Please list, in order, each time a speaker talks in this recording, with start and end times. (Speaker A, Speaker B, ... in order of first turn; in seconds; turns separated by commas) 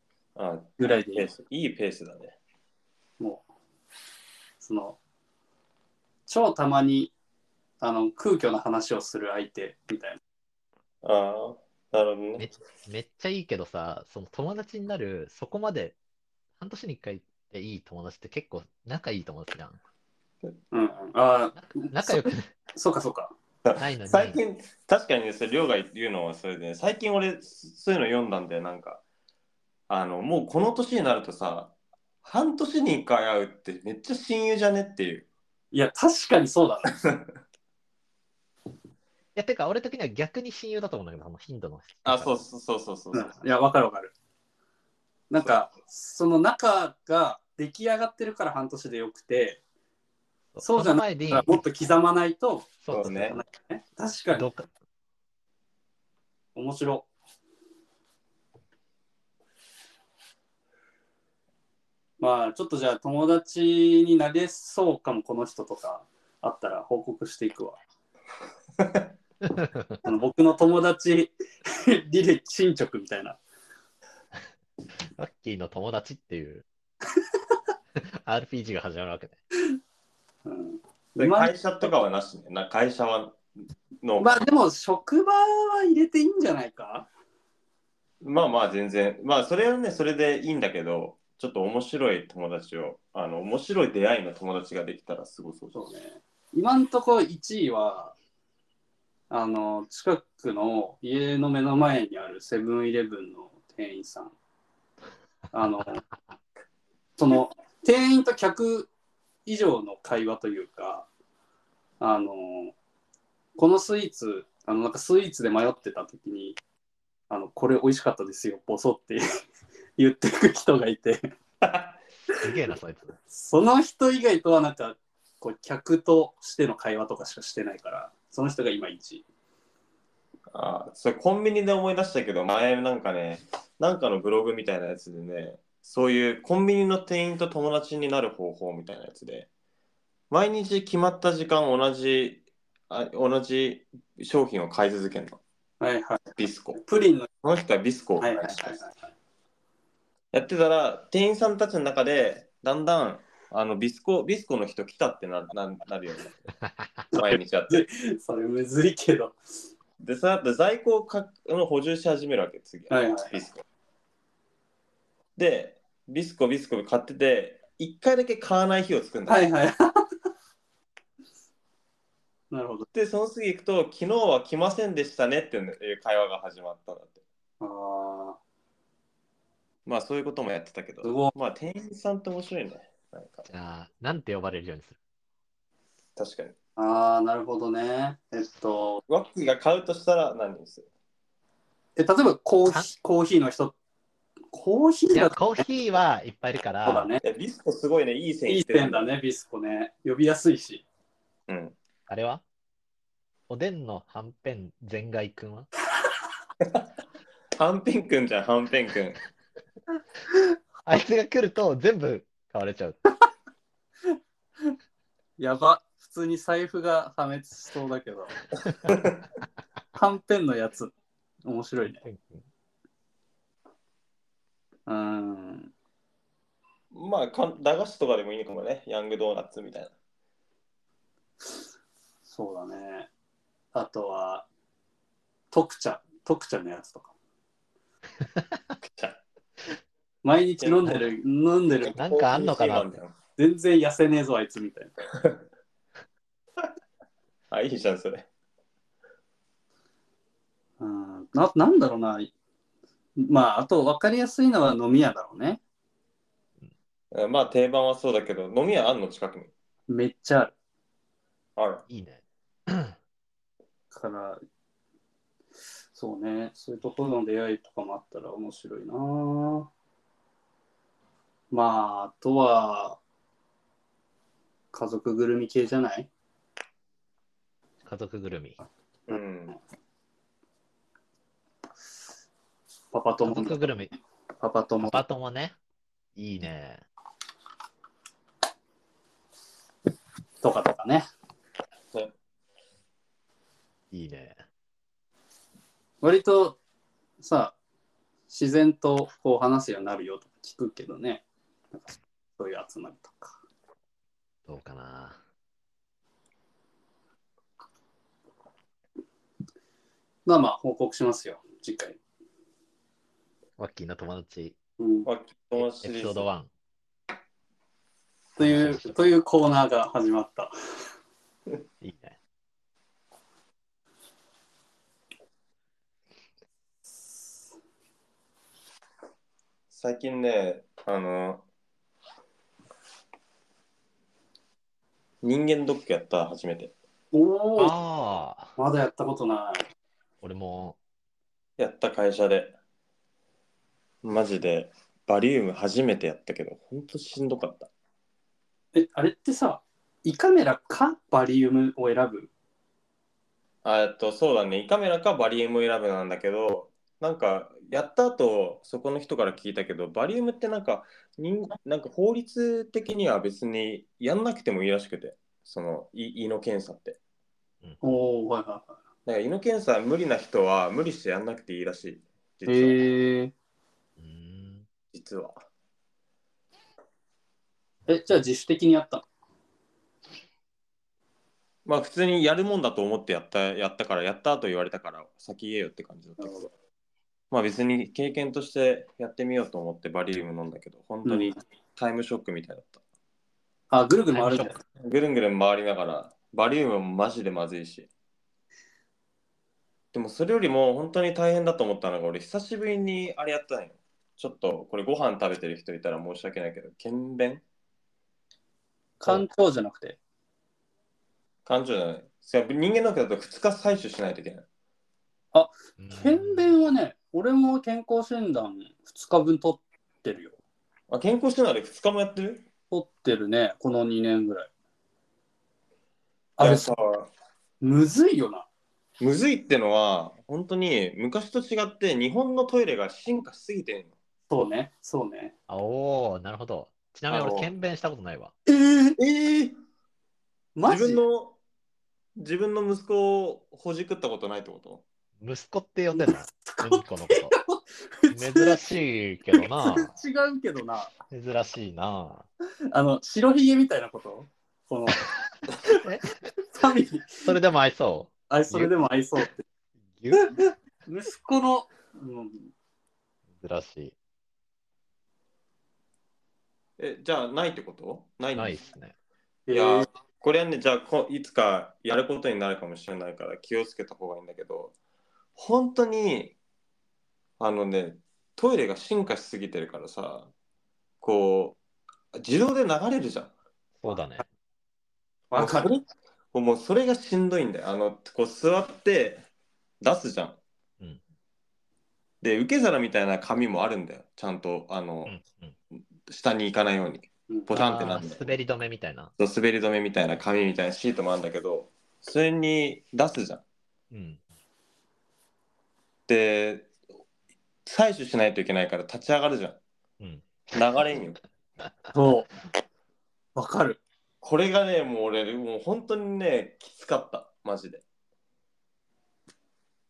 Speaker A: 0.3-2.3, Speaker B: 0.8-1.3, Speaker B: 3.2-3.4, Speaker B: 4.6-5.0, Speaker B: 6.3-7.1, Speaker B: 7.8-10.2, Speaker A: 11.0-12.5, Speaker C: 12.4-15.9, Speaker C: 16.6-19.8, Speaker B: 20.7-23.3, Speaker C: 21.6-22.5, Speaker A: 23.6-29.0, Speaker C: 23.8-24.4, Speaker A: 29.9-31.7, Speaker A: 32.2-35.3, Speaker B: 35.7-36.9, Speaker A: 36.9-37.3, Speaker C: 39.3-42.4, Speaker A: 42.0-43.4, Speaker B: 43.1-44.1, Speaker B: 45.3-49.6, Speaker C: 50.5-51.6, Speaker B: 50.6-54.5, Speaker C: 52.8-53.4, Speaker A: 52.9-53.4, Speaker C: 54.3-54.7, Speaker B: 56.5-57.1, Speaker B: 62.2-67.8, Speaker C: 69.4-70.0, Speaker B: 70.0-73.4, Speaker C: 75.2-76.6, Speaker C: 78.0-79.3, Speaker B: 80.4-81.9, Speaker A: 81.2-83.4, Speaker A: 84.0-84.4, Speaker B: 84.2-87.1, Speaker A: 88.2-95.8, Speaker B: 95.7-98.1, Speaker B: 99.3-104.3, Speaker B: 105.5-106.0, Speaker B: 107.2-108.9, Speaker B: 109.5-111.1, Speaker B: 112.0-112.7, Speaker B: 113.5-116.6, Speaker B: 117.3-119.2, Speaker B: 120.0-121.3, Speaker A: 121.6-121.9, Speaker C: 122.4-123.2, Speaker B: 123.3-129.2, Speaker A: 130.5-139.5, Speaker A: 140.3-145.4, Speaker B: 145.8-146.2, Speaker A: 146.3-146.8, Speaker B: 146.8-147.3, Speaker A: 147.4-148.8, Speaker B: 148.2-148.9, Speaker A: 150.3-156.4, Speaker A: 157.1-157.8, Speaker B: 157.2-159.3, Speaker A: 160.0-163.6, Speaker B: 162.9-163.4, Speaker A: 165.3-169.5, Speaker B: 169.3-170.0, Speaker B: 172.5-172.9, Speaker A: 172.9-177.2, Speaker B: 177.6-178.4, Speaker A: 179.8-183.5, Speaker B: 181.0-181.3, Speaker C: 183.5-185.0, Speaker A: 186.2-186.5, Speaker B: 186.8-189.0, Speaker A: 189.1-190.9, Speaker B: 191.9-193.7, Speaker B: 194.5-195.6, Speaker C: 195.1-197.1, Speaker B: 196.8-197.2, Speaker A: 197.2-199.1, Speaker B: 198.5-200.8, Speaker A: 201.5-201.7, Speaker C: 202.1-202.4, Speaker C: 203.5-205.7, Speaker A: 207.6-209.2, Speaker C: 210.8-213.0, Speaker B: 215.4-218.4, Speaker A: 218.9-219.2, Speaker B: 219.9-220.9, Speaker B: 221.4-222.0, Speaker C: 221.8-222.4, Speaker B: 224.9-225.7, Speaker A: 226.9-229.9, Speaker B: 232.3-233.1, Speaker B: 233.7-234.4, Speaker B: 235.5-237.1, Speaker A: 238.8-239.2, Speaker B: 240.2-241.9, Speaker A: 240.6-241.1, Speaker A: 241.8-243.1, Speaker C: 241.9-243.0, Speaker B: 243.4-245.0, Speaker A: 247.5-248.3, Speaker B: 250.8-252.3, Speaker B: 253.2-255.6, Speaker A: 257.1-259.5, Speaker B: 259.9-260.5, Speaker A: 261.6-261.8, Speaker C: 261.9-262.9, Speaker B: 263.9-264.4, Speaker B: 265.9-269.7, Speaker B: 271.5-273.0, Speaker B: 274.7-276.1, Speaker C: 277.8-278.6, Speaker A: 279.1-279.6, Speaker B: 282.9-283.7, Speaker C: 283.2-283.9, Speaker B: 284.4-285.0, Speaker C: 284.8-285.5, Speaker C: 286.1-286.8, Speaker B: 290.4-291.1, Speaker C: 293.9-294.4, Speaker B: 296.0-296.6, Speaker B: 297.2-297.5, Speaker B: 298.3-303.4, Speaker C: 304.4-305.2, Speaker B: 310.3-312.0, Speaker C: 313.6-314.6, Speaker B: 314.8-315.1, Speaker A: 315.1-316.3, Speaker C: 315.6-316.5, Speaker B: 318.4-320.5, Speaker C: 318.4-319.1, Speaker C: 321.8-322.2, Speaker A: 329.7-331.4, Speaker A: 335.2-336.7, Speaker B: 337.1-337.7, Speaker C: 337.6-338.5, Speaker B: 338.6-339.6, Speaker C: 340.2-340.8, Speaker A: 341.6-342.5, Speaker A: 344.0-347.7, Speaker B: 348.7-352.3, Speaker A: 353.6-367.0, Speaker B: 367.8-368.7, Speaker A: 369.1-372.9, Speaker B: 372.5-373.3, Speaker C: 374.0-374.6, Speaker A: 374.9-375.4, Speaker B: 377.9-379.0, Speaker A: 381.6-386.4, Speaker B: 386.2-386.5, Speaker A: 387.3-392.8, Speaker B: 391.0-391.4, Speaker B: 393.7-394.6, Speaker C: 394.1-394.5, Speaker A: 394.8-397.9, Speaker A: 399.9-407.4, Speaker B: 409.0-410.0, Speaker A: 411.4-414.4, Speaker B: 415.3-420.4, Speaker C: 415.8-416.5, Speaker A: 420.9-422.4, Speaker B: 422.7-424.5, Speaker B: 426.4-426.7, Speaker A: 426.4-427.1, Speaker B: 427.6-428.5, Speaker A: 429.0-433.9, Speaker B: 434.3-435.3, Speaker C: 435.5-438.3, Speaker A: 437.1-437.5, Speaker B: 438.5-439.0, Speaker A: 439.0-439.5, Speaker B: 440.6-441.0, Speaker A: 440.7-441.4, Speaker A: 442.1-444.8, Speaker C: 445.2-447.4, Speaker B: 446.0-448.6, Speaker C: 448.1-449.9, Speaker B: 449.4-450.9, Speaker C: 451.1-452.3, Speaker B: 452.7-455.1, Speaker C: 455.6-456.0, Speaker B: 456.4-457.3, Speaker C: 457.2-458.7, Speaker B: 458.3-459.4, Speaker C: 459.9-460.4, Speaker B: 460.9-462.5, Speaker C: 463.4-463.9, Speaker A: 466.8-468.6, Speaker C: 468.3-468.9, Speaker B: 469.5-469.9, Speaker A: 469.5-474.7, Speaker A: 475.4-476.4, Speaker A: 477.4-480.3, Speaker A: 481.0-481.6, Speaker A: 482.1-483.3, Speaker C: 483.8-484.2, Speaker B: 485.3-485.7, Speaker A: 485.4-485.8, Speaker A: 486.3-489.2, Speaker A: 489.8-490.4, Speaker A: 492.2-495.1, Speaker C: 495.1-495.5, Speaker A: 496.1-498.3, Speaker C: 497.5-499.1, Speaker A: 499.2-503.4, Speaker C: 503.9-504.2, Speaker A: 506.1-506.7, Speaker A: 507.6-509.6, Speaker C: 510.0-510.3, Speaker A: 510.5-511.2, Speaker B: 511.9-512.3, Speaker B: 513.3-513.8, Speaker A: 514.2-517.8